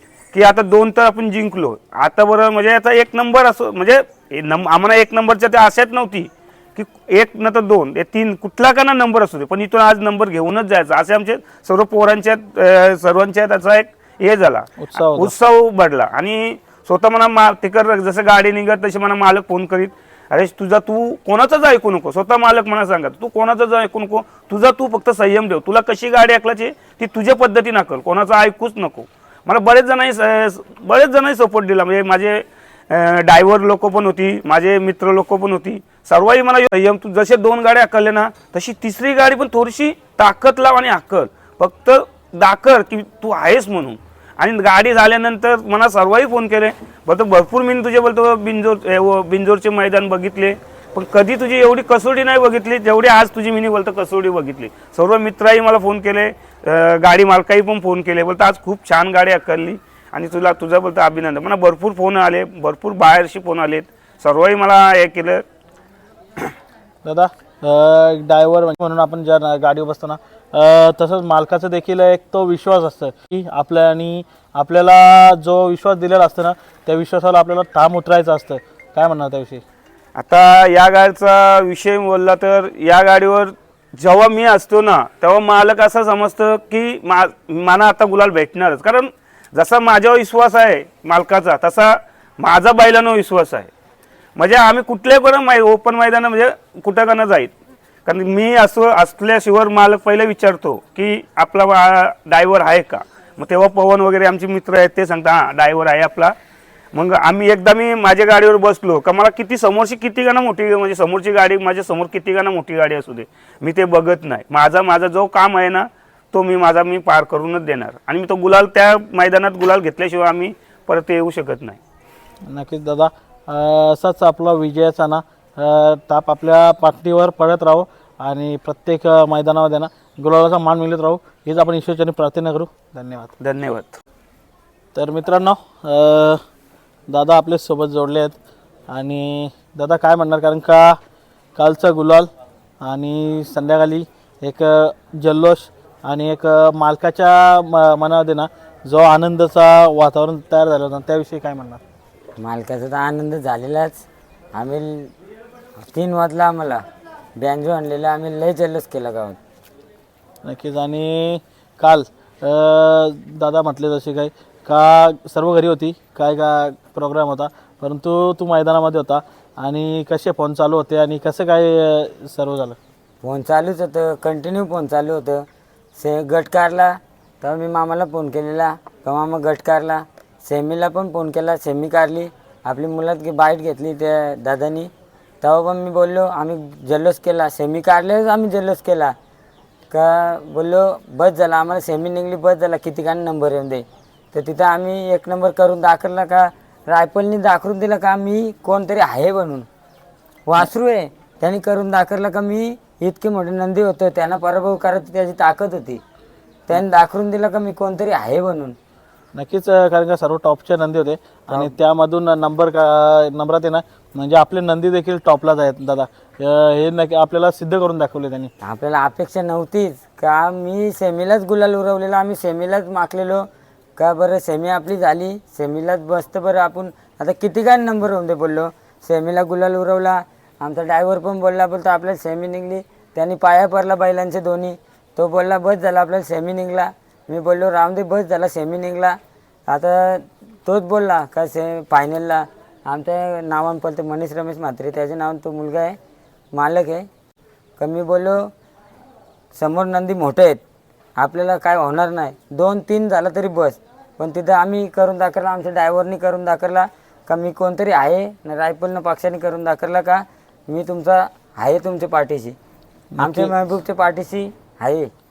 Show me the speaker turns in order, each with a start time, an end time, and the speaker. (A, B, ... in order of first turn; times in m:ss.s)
0:00.3-1:05.4 A
0:14.8-0:15.3 B
1:07.0-1:19.6 B
1:20.2-1:33.7 A
1:34.4-1:37.5 A
1:38.0-1:46.3 A
1:46.9-2:01.8 A
2:02.5-2:13.3 B
2:13.4-2:14.0 A
2:14.9-2:16.4 B
2:17.1-2:18.3 B
2:18.9-2:21.0 B
2:21.6-2:22.3 B
2:22.8-2:31.8 B
2:32.4-2:35.1 C
2:35.9-2:36.8 C
2:37.4-2:39.4 C
2:40.4-2:52.8 B
2:53.2-3:04.9 C
3:05.4-3:09.1 C
3:09.9-3:19.7 C
3:20.5-3:26.0 C
3:26.7-3:28.8 C
3:29.3-3:38.5 B
3:38.6-3:43.4 C
3:44.0-4:06.0 C
4:06.5-4:07.1 C
4:07.8-4:08.5 C
4:09.5-4:10.6 C
4:11.2-4:22.6 C
4:23.1-4:23.5 B
4:23.2-4:25.1 C